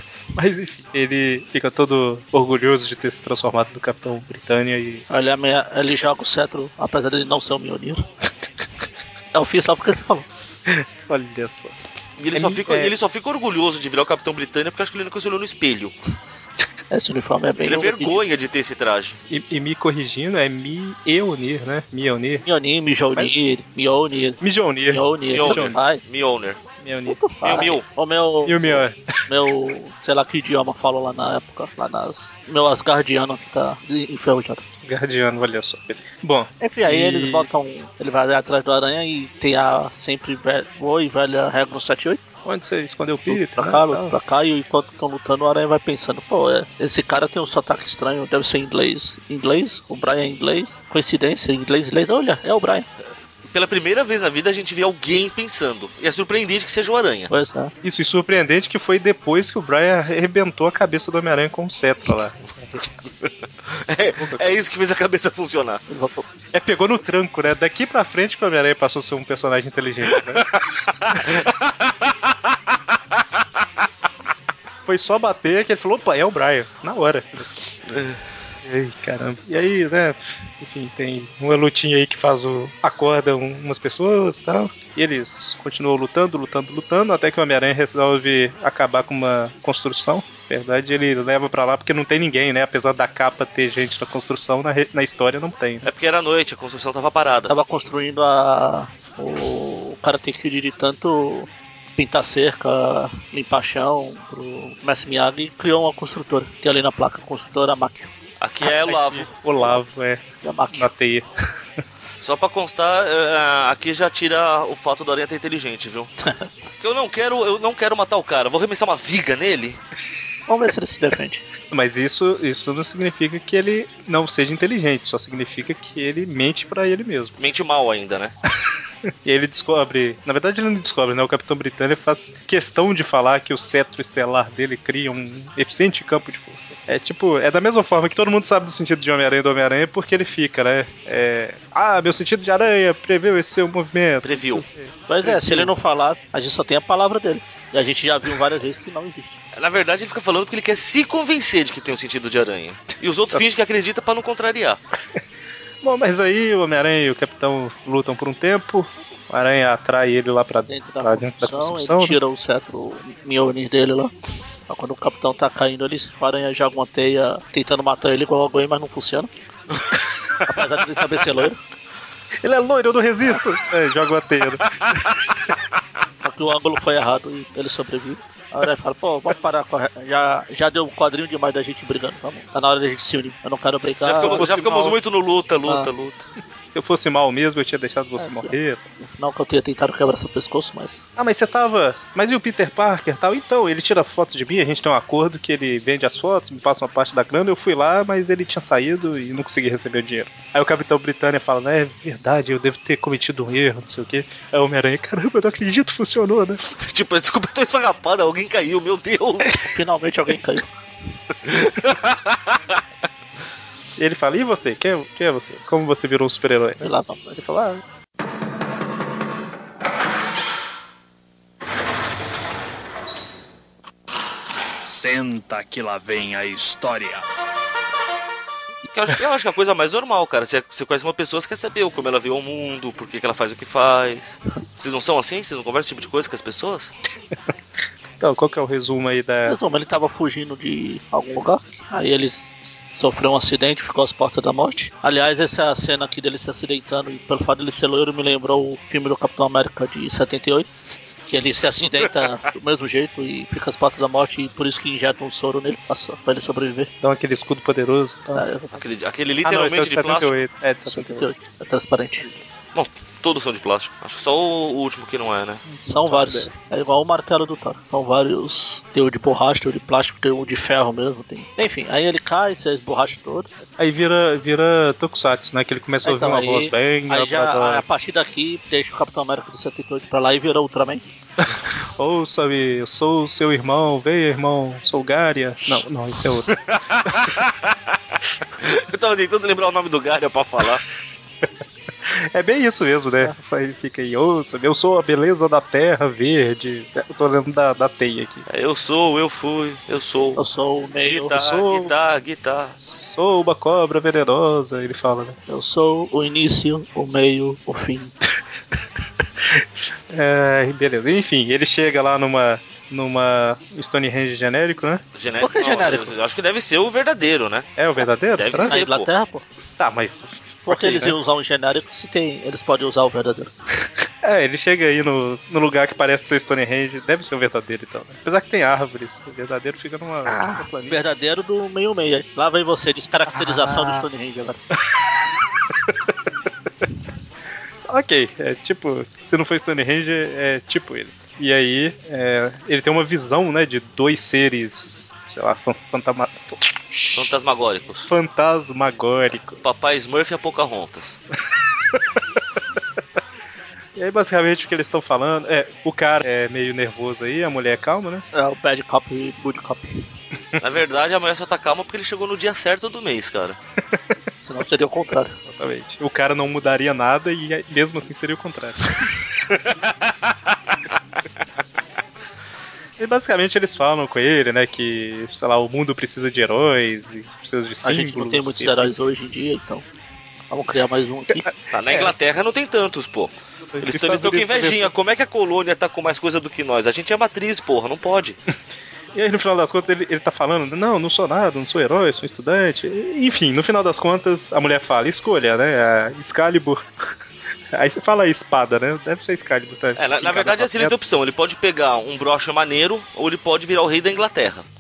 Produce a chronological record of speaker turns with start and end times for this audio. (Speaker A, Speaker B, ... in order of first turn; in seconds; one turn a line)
Speaker A: 0.3-5.0
Speaker B: 5.1-8.1
Speaker B: 9.3-10.3
Speaker A: 10.7-11.8
Speaker C: 12.2-15.9
Speaker A: 12.3-12.9
Speaker B: 16.9-18.2
Speaker C: 17.6-19.2
Speaker A: 19.3-22.4
Speaker B: 22.5-26.1
Speaker A: 24.4-25.8
Speaker C: 25.3-26.6
Speaker A: 26.8-27.2
Speaker B: 27.1-34.6
Speaker C: 27.4-27.9
Speaker A: 28.4-29.1
Speaker A: 34.8-37.5
Speaker B: 36.6-42.2
Speaker A: 42.4-44.1
Speaker B: 43.3-52.9
Speaker C: 53.5-57.3
Speaker B: 57.3-57.7
Speaker A: 57.8-62.5
Speaker C: 63.2-65.8
Speaker A: 64.2-64.6
Speaker B: 65.9-66.4
Speaker A: 66.5-70.5
Speaker C: 71.1-71.7
Speaker A: 74.8-77.6
Speaker C: 77.9-78.2
Speaker A: 78.6-95.9
Speaker C: 95.8-97.5
Speaker B: 97.5-108.1
Speaker C: 108.4-109.8
Speaker A: 108.6-111.3
Speaker B: 110.4-110.9
Speaker C: 112.2-116.1
Speaker B: 116.2-116.5
Speaker C: 116.8-119.8
Speaker B: 120.5-121.4
Speaker A: 121.7-127.3
Speaker C: 127.4-128.3
Speaker A: 129.1-145.7
Speaker C: 144.2-144.7
Speaker B: 145.1-149.4
Speaker C: 149.5-154.8
Speaker A: 155.8-162.2
Speaker B: 160.7-164.1
Speaker B: 164.7-169.3
Speaker B: 170.5-171.6
Speaker A: 172.4-175.2
Speaker B: 176.2-184.5
Speaker C: 184.0-186.2
Speaker A: 184.2-185.0
Speaker A: 186.7-188.8
Speaker B: 188.2-191.1
Speaker A: 191.2-206.6
Speaker C: 206.7-209.7
Speaker B: 209.7-210.7
Speaker C: 211.4-212.4
Speaker A: 214.0-216.8
Speaker B: 216.8-217.5
Speaker A: 217.4-217.8
Speaker D: 224.8-227.2
Speaker C: 228.9-236.9
Speaker A: 238.2-239.6
Speaker B: 239.5-250.7
Speaker B: 251.2-256.9
Speaker A: 257.0-258.5
Speaker B: 258.3-258.8
Speaker C: 258.7-260.4
Speaker A: 259.4-261.5
Speaker B: 260.9-262.3
Speaker A: 262.2-262.6
Speaker C: 262.7-265.6
Speaker A: 265.7-266.5
Speaker B: 265.8-273.5
Speaker A: 273.8-277.9
Speaker B: 276.0-281.0
Speaker A: 281.4-286.5
Speaker C: 286.5-287.8
Speaker C: 288.6-290.9
Speaker A: 292.0-298.4
Speaker C: 298.5-300.4
Speaker B: 300.4-301.4
Speaker C: 301.0-302.8
Speaker A: 301.4-301.9
Speaker A: 302.9-305.4
Speaker B: 305.5-308.1
Speaker A: 309.5-315.0
Speaker C: 315.1-317.7
Speaker B: 315.4-316.1
Speaker A: 317.8-318.8
Speaker C: 318.4-319.1
Speaker B: 318.6-319.4
Speaker A: 319.8-321.2
Speaker B: 320.7-323.5
Speaker A: 324.2-331.0
Speaker B: 330.3-334.6
Speaker A: 333.3-334.1
Speaker A: 335.7-336.2
Speaker A: 337.9-347.0
Speaker C: 347.1-348.1
Speaker A: 348.1-349.6
Speaker C: 349.6-351.2
Speaker A: 354.0-358.2
Speaker B: 358.3-360.1
Speaker C: 360.6-363.6
Speaker B: 364.4-365.4
Speaker A: 365.5-368.9
Speaker A: 373.0-378.9
Speaker B: 377.8-379.9
Speaker B: 380.5-381.5
Speaker A: 381.3-382.1
Speaker C: 381.7-388.4
Speaker A: 383.7-384.9
Speaker A: 389.1-397.1
Speaker A: 397.7-400.9
Speaker C: 400.0-404.6